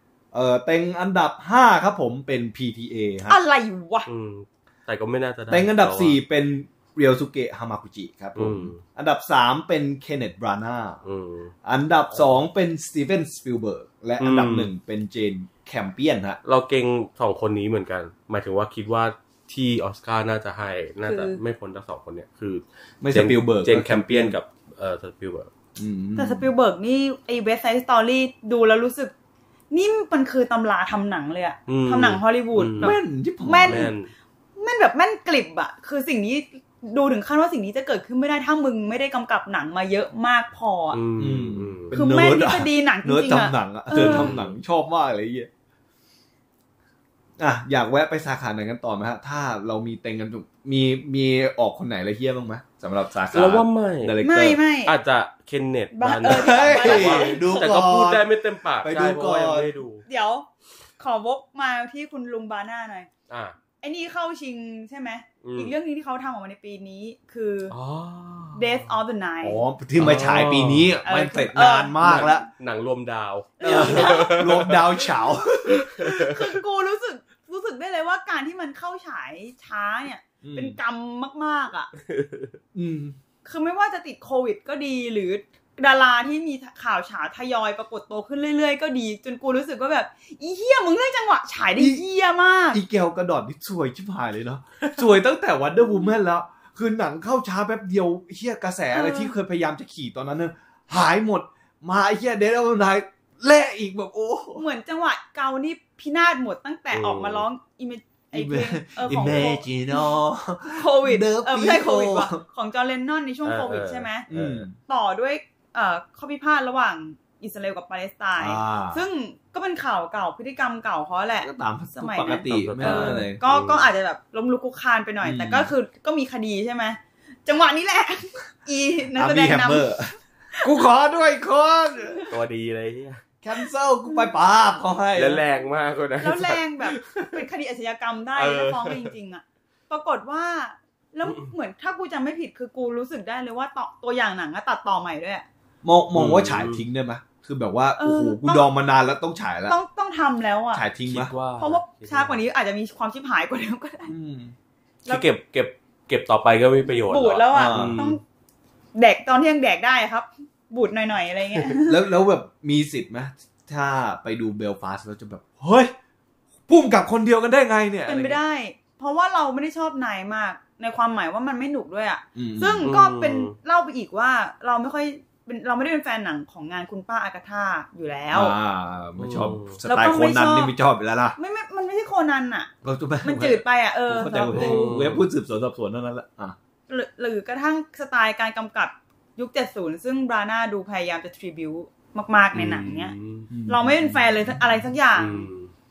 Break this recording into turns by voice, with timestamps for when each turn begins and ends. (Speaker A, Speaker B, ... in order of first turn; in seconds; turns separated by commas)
Speaker A: 0.3-3.4, Speaker B: 3.3-4.1, Speaker C: 4.1-6.2, Speaker A: 5.5-11.0, Speaker C: 8.3-8.8, Speaker C: 11.0-11.5, Speaker A: 11.6-16.4, Speaker C: 14.2-14.7, Speaker C: 16.4-25.5, Speaker B: 21.0-21.4, Speaker A: 23.0-24.4, Speaker A: 25.8-26.5, Speaker B: 26.2-29.1, Speaker B: 29.7-33.9, Speaker C: 31.7-33.0, Speaker A: 32.8-33.9, Speaker C: 33.6-34.1, Speaker B: 34.6-41.0, Speaker C: 40.9-41.9, Speaker A: 41.2-45.5, Speaker B: 41.9-44.3, Speaker C: 43.9-44.5, Speaker A: 47.4-54.6, Speaker C: 53.3-54.2, Speaker B: 54.2-54.9, Speaker C: 54.8-60.0, Speaker B: 55.9-57.6, Speaker A: 56.2-58.3, Speaker A: 58.8-59.7, Speaker B: 60.0-60.5, Speaker B: 61.0-63.1, Speaker C: 63.3-63.5, Speaker B: 63.8-67.7, Speaker C: 65.4-65.7, Speaker C: 67.7-68.9, Speaker B: 68.5-69.6, Speaker A: 69.4-72.5, Speaker C: 70.0-70.9, Speaker B: 71.0-72.4, Speaker C: 72.0-75.0, Speaker B: 73.6-74.4, Speaker A: 73.6-76.4, Speaker C: 75.8-76.2, Speaker B: 76.1-81.9, Speaker A: 80.4-80.8, Speaker C: 82.0-82.6, Speaker A: 82.7-83.2, Speaker B: 83.4-92.8, Speaker A: 91.8-92.0, Speaker A: 92.7-104.6, Speaker B: 98.9-99.3, Speaker B: 104.5-110.1, Speaker C: 106.9-107.4, Speaker A: 108.3-112.4, Speaker B: 110.7-114.3, Speaker C: 113.4-114.7, Speaker A: 114.3-114.8, Speaker B: 114.8-129.9, Speaker A: 118.4-119.0, Speaker A: 121.4-123.4, Speaker C: 122.5-123.9, Speaker A: 125.2-125.7, Speaker A: 129.1-132.2, Speaker C: 132.3-133.2, Speaker A: 133.4-135.4, Speaker B: 134.1-134.3, Speaker C: 135.2-137.3, Speaker B: 136.2-145.4, Speaker C: 138.3-139.1, Speaker A: 145.8-149.8, Speaker C: 146.1-146.8, Speaker B: 148.0-148.7, Speaker B: 149.7-150.8, Speaker A: 150.7-151.3, Speaker C: 151.1-152.4, Speaker B: 151.6-154.1, Speaker A: 154.1-154.5, Speaker C: 155.1-158.2, Speaker B: 157.1-158.2, Speaker A: 157.5-158.0, Speaker B: 158.9-162.0, Speaker A: 161.8-165.9, Speaker A: 166.7-168.4, Speaker B: 168.1-178.6, Speaker A: 172.3-172.9, Speaker C: 172.8-173.5, Speaker A: 178.3-181.4, Speaker C: 179.2-179.8, Speaker B: 179.8-180.7, Speaker B: 181.3-182.7, Speaker A: 182.8-186.6, Speaker B: 183.2-184.9, Speaker C: 184.5-185.2, Speaker B: 186.9-193.1, Speaker C: 192.5-193.5, Speaker A: 193.5-194.5, Speaker B: 193.7-195.5, Speaker C: 195.1-195.7